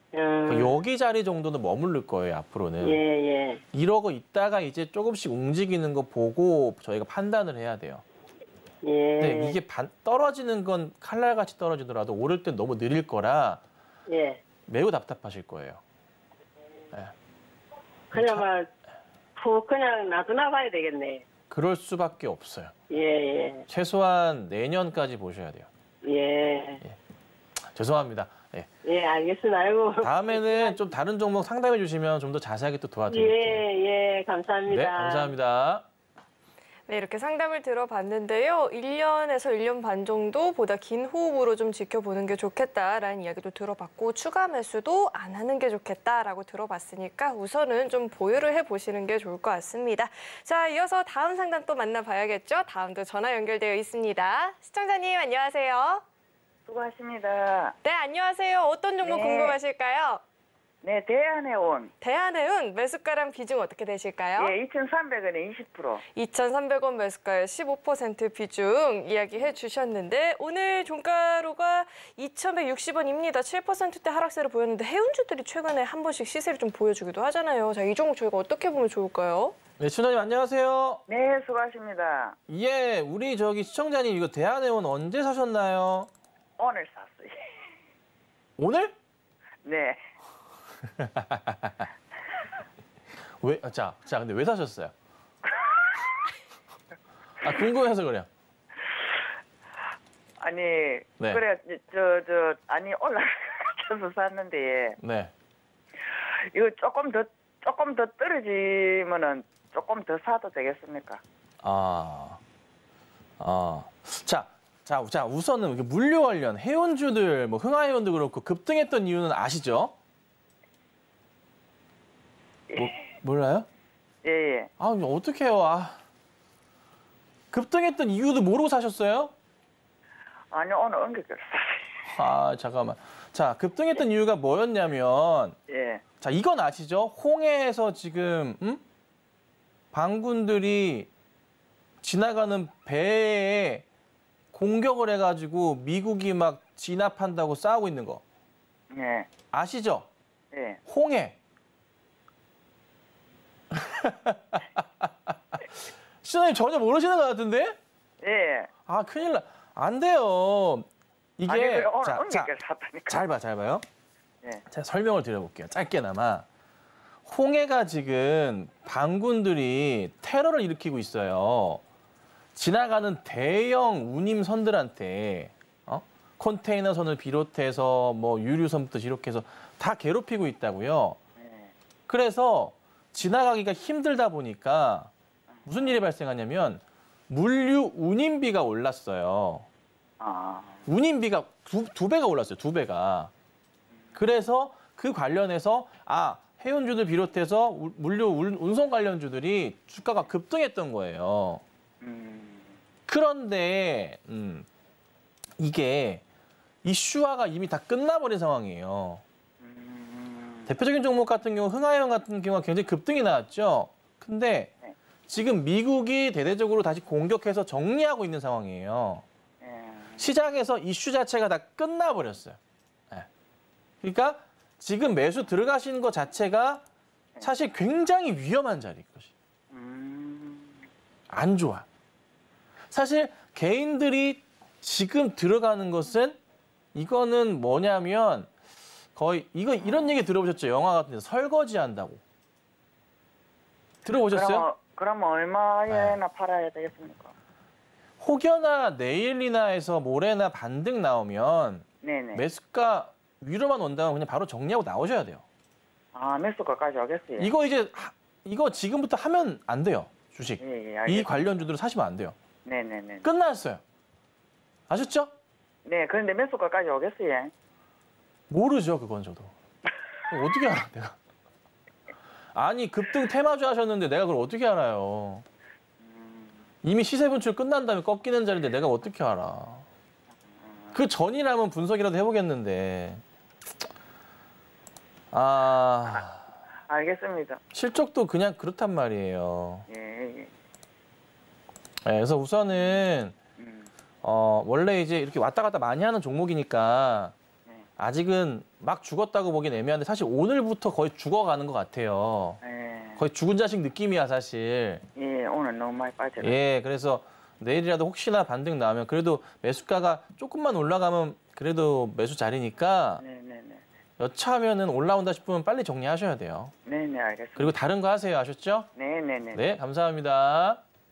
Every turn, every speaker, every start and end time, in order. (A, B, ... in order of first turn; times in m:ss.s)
0:00.1-0:00.7 A
0:00.5-0:03.0 B
0:02.8-0:03.6 A
0:03.7-0:08.0 B
0:08.8-0:09.6 A
0:09.2-0:13.6 B
0:14.1-0:14.4 A
0:14.7-0:15.8 B
0:18.1-0:18.7 A
0:18.1-0:18.4 B
0:19.4-0:21.2 A
0:21.5-0:22.8 B
0:22.9-0:23.6 A
0:23.7-0:25.7 B
0:26.0-0:26.8 A
0:27.6-0:28.7 B
0:28.8-0:30.8 A
0:30.0-0:33.6 B
0:33.1-0:35.3 A
0:34.7-0:35.9 B
0:36.9-0:56.0 C
0:56.7-0:57.8 D
0:57.8-1:00.2 C
0:59.0-0:59.6 D
1:00.8-1:01.9 D
1:02.0-1:04.5 C
1:04.4-1:06.0 D
1:06.2-1:19.6 C
1:19.8-1:21.0 B
1:21.1-1:22.4 D
1:22.5-1:26.1 B
1:26.6-1:27.5 D
1:28.6-1:28.9 B
1:29.6-1:30.0 D
1:31.0-1:31.9 B
1:33.4-1:34.9 B
1:35.6-1:36.1 D
1:37.4-1:38.3 B
1:40.4-1:45.0 D
1:45.0-1:45.3 B
1:46.5-1:51.2 D
1:51.6-1:52.4 B
1:53.4-2:00.0 B
2:02.8-2:03.7 B
2:04.2-2:04.7 D
2:04.8-2:06.0 B
2:07.5-2:09.3 B
2:10.5-2:11.9 D
2:12.0-2:15.6 B
2:15.7-2:16.0 D
2:16.2-2:18.8 B
2:19.9-2:21.1 B
2:22.0-2:23.8 B
2:24.5-2:28.2 B
2:28.9-2:29.3 D
2:29.5-2:30.1 B
2:30.5-2:30.8 D
2:30.9-2:31.4 B
2:33.7-2:35.7 B
2:36.2-2:37.8 B
2:38.2-2:38.7 D
2:38.9-2:42.5 B
2:41.5-2:43.2 D
2:43.1-2:43.8 B
2:44.7-2:46.5 B
2:47.3-2:51.8 B
2:52.6-3:01.2 B
3:01.4-3:01.7 D
3:02.1-3:05.1 B
3:05.6-3:05.9 D
3:05.7-3:09.7 B
3:10.2-3:10.8 D
3:10.9-3:13.3 B
3:14.2-3:21.6 B
3:22.0-3:22.8 D
3:23.1-3:24.7 B
3:25.6-3:26.2 B
3:26.8-3:29.2 B
3:29.6-3:30.7 D
3:30.7-3:34.7 B
3:35.3-3:39.2 B
3:39.6-3:40.2 D
3:40.2-3:42.6 B
3:44.0-3:46.8 B
3:47.4-3:49.3 B
3:49.7-3:50.8 D
3:51.3-3:51.9 B
3:52.9-3:56.4 B
3:56.9-3:58.5 B
3:59.2-4:02.2 B
4:04.0-4:04.7 B
4:04.3-4:07.3 D
4:05.9-4:06.2 B
4:08.2-4:15.4 B
4:12.0-4:12.4 D
4:16.1-4:17.5 D
4:17.4-4:22.4 B
4:20.6-4:21.6 D
4:22.7-4:23.3 D
4:23.2-4:23.8 B
4:24.9-4:25.3 B
4:25.9-4:27.5 D
4:28.5-4:29.5 B
4:30.3-4:31.2 B
4:32.5-4:35.4 B
4:36.0-4:36.6 D
4:36.8-4:39.9 B
4:40.5-4:41.0 D
4:40.9-4:43.2 B
4:45.3-4:46.4 B
4:46.9-4:47.6 D
4:47.7-4:49.9 B
4:49.9-4:50.5 D
4:52.0-4:53.4 B
4:52.7-4:53.0 D
4:53.6-4:53.9 D
4:54.2-4:57.3 B
4:58.0-5:02.6 B
5:02.6-5:03.2 D
5:03.2-5:05.0 B
5:05.2-5:06.6 D
5:06.4-5:13.2 B
5:13.2-5:13.8 D
5:14.2-5:16.7 B
5:16.9-5:17.7 D
5:17.6-5:18.9 B
5:19.0-5:19.6 D
5:19.5-5:20.8 B